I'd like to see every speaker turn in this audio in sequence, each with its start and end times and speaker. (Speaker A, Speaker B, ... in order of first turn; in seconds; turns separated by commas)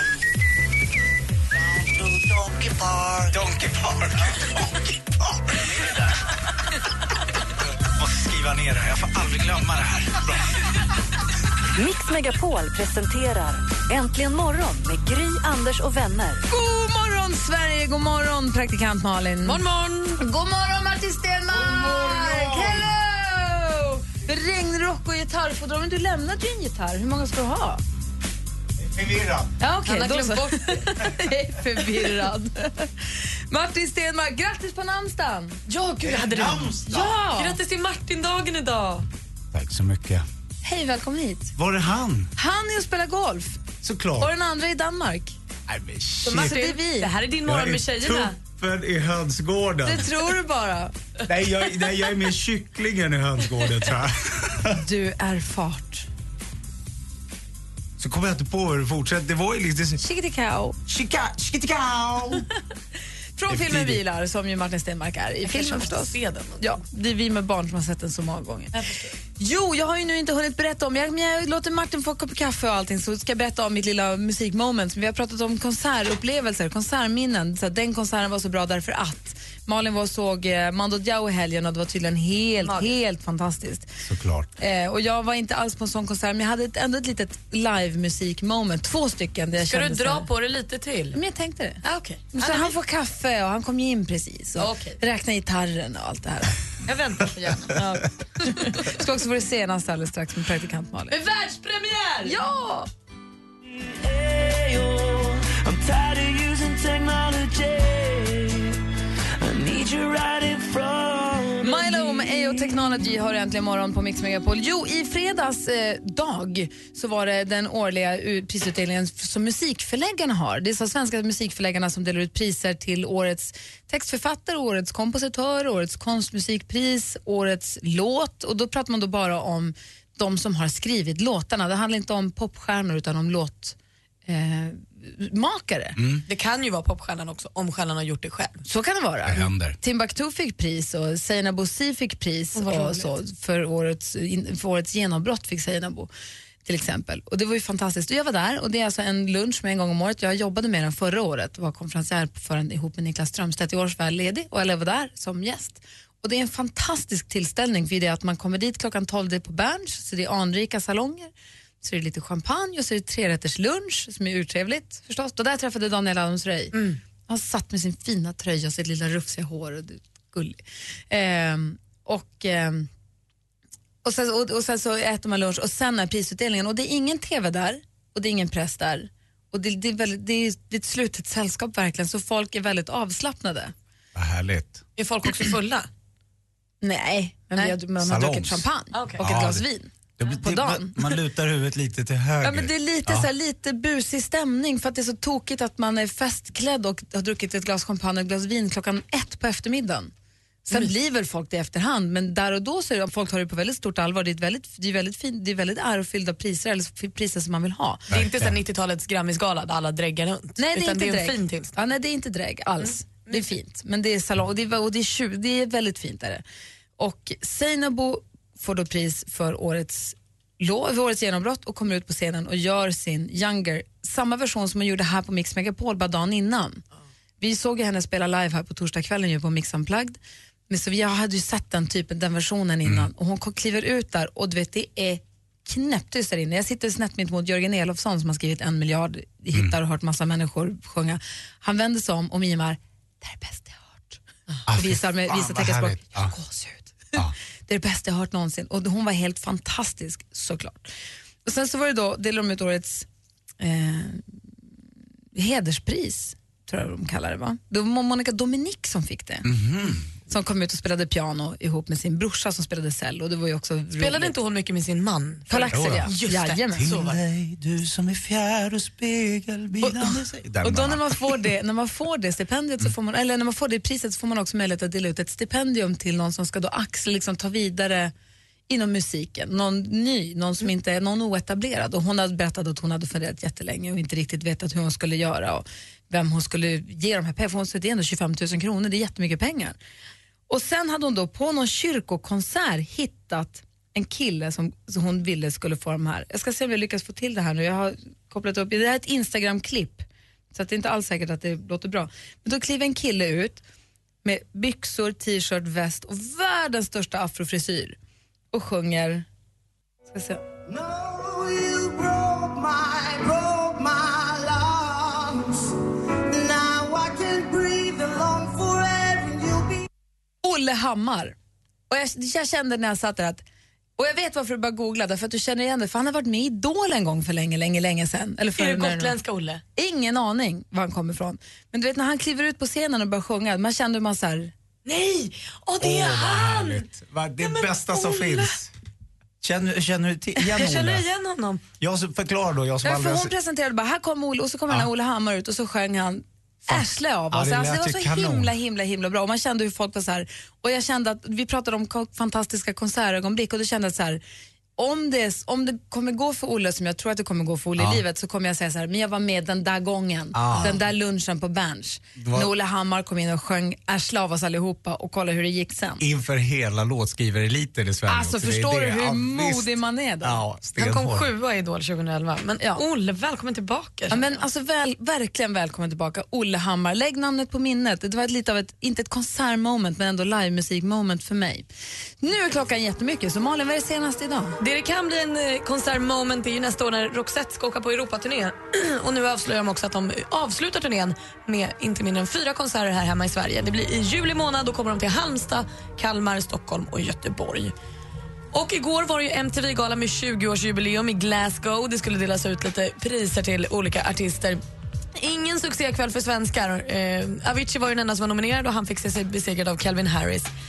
Speaker A: 1.7-6.3, Speaker A: 7.6-10.4, Speaker B: 11.8-16.4, Speaker C: 16.5-19.6, Speaker D: 19.4-20.2, Speaker C: 20.2-27.8, Speaker A: 21.5-22.9, Speaker A: 28.8-29.5, Speaker C: 29.6-35.6, Speaker D: 29.9-30.9, Speaker D: 35.7-39.0, Speaker A: 36.0-36.9, Speaker C: 36.9-37.6, Speaker A: 39.5-40.3, Speaker C: 40.6-41.5, Speaker A: 41.6-42.3, Speaker C: 42.4-43.6, Speaker A: 43.8-44.3, Speaker C: 44.2-45.4, Speaker A: 45.7-46.6, Speaker D: 46.2-48.4, Speaker C: 46.3-47.1, Speaker A: 47.5-50.1, Speaker C: 49.8-50.9, Speaker A: 51.3-54.8, Speaker C: 54.8-56.1, Speaker A: 58.0-60.0, Speaker C: 60.0-60.8, Speaker A: 60.9-62.5, Speaker C: 63.4-68.8, Speaker A: 63.5-64.0, Speaker D: 65.5-66.7, Speaker D: 68.7-69.2, Speaker C: 69.4-83.9, Speaker D: 82.6-83.0, Speaker A: 84.0-84.5, Speaker C: 84.6-90.3, Speaker D: 89.6-91.2, Speaker C: 91.1-91.8, Speaker D: 91.8-92.7, Speaker C: 92.3-96.6, Speaker D: 94.6-95.0, Speaker D: 96.9-98.9, Speaker C: 98.5-101.2, Speaker D: 101.1-102.3, Speaker C: 102.2-102.9, Speaker B: 105.8-106.9, Speaker B: 107.5-108.5, Speaker B: 109.5-110.8, Speaker C: 111.6-133.8, Speaker D: 111.7-112.0, Speaker C: 134.3-136.0, Speaker A: 136.0-136.2, Speaker D: 136.3-138.6, Speaker C: 138.7-146.1, Speaker A: 139.3-139.8, Speaker D: 142.6-143.2, Speaker C: 146.7-172.9, Speaker D: 166.7-167.0, Speaker C: 174.0-183.7, Speaker A: 184.2-184.8, Speaker D: 185.0-185.9, Speaker C: 186.8-191.2, Speaker A: 188.0-188.7, Speaker D: 188.9-189.2, Speaker A: 189.2-189.6, Speaker A: 190.2-193.3, Speaker C: 192.4-200.1, Speaker C: 200.7-208.1, Speaker A: 208.1-208.6, Speaker D: 208.1-211.7, Speaker C: 210.6-216.4, Speaker D: 212.8-213.5, Speaker C: 217.0-226.8, Speaker C: 227.4-250.8, Speaker A: 232.8-233.1, Speaker A: 244.7-246.3, Speaker C: 251.4-253.1, Speaker C: 253.6-254.4, Speaker C: 255.3-259.5, Speaker A: 259.4-260.1, Speaker C: 260.3-264.4, Speaker D: 264.0-267.2, Speaker C: 265.5-266.9, Speaker A: 265.7-266.1, Speaker A: 266.7-271.4, Speaker C: 269.8-278.1, Speaker C: 278.7-289.8, Speaker C: 290.5-303.6, Speaker C: 304.2-308.0, Speaker C: 308.5-309.3, Speaker C: 310.1-310.4, Speaker E: 310.7-315.7, Speaker E: 316.3-319.9, Speaker C: 320.4-321.4, Speaker C: 321.9-323.4, Speaker C: 324.0-329.1, Speaker D: 328.6-329.6, Speaker C: 329.8-334.5, Speaker D: 334.9-336.8, Speaker A: 335.8-338.7, Speaker D: 337.4-338.5, Speaker A: 339.4-341.1, Speaker D: 340.4-341.6, Speaker A: 341.8-343.3, Speaker C: 342.8-354.2, Speaker A: 346.7-348.5, Speaker C: 354.8-366.0, Speaker A: 357.8-358.0, Speaker A: 360.3-360.8, Speaker A: 362.2-362.5, Speaker A: 366.0-371.3, Speaker C: 368.1-370.4, Speaker D: 370.8-374.4, Speaker C: 374.1-381.7, Speaker C: 382.2-384.6, Speaker D: 384.6-397.7, Speaker D: 398.5-404.6, Speaker D: 405.1-410.5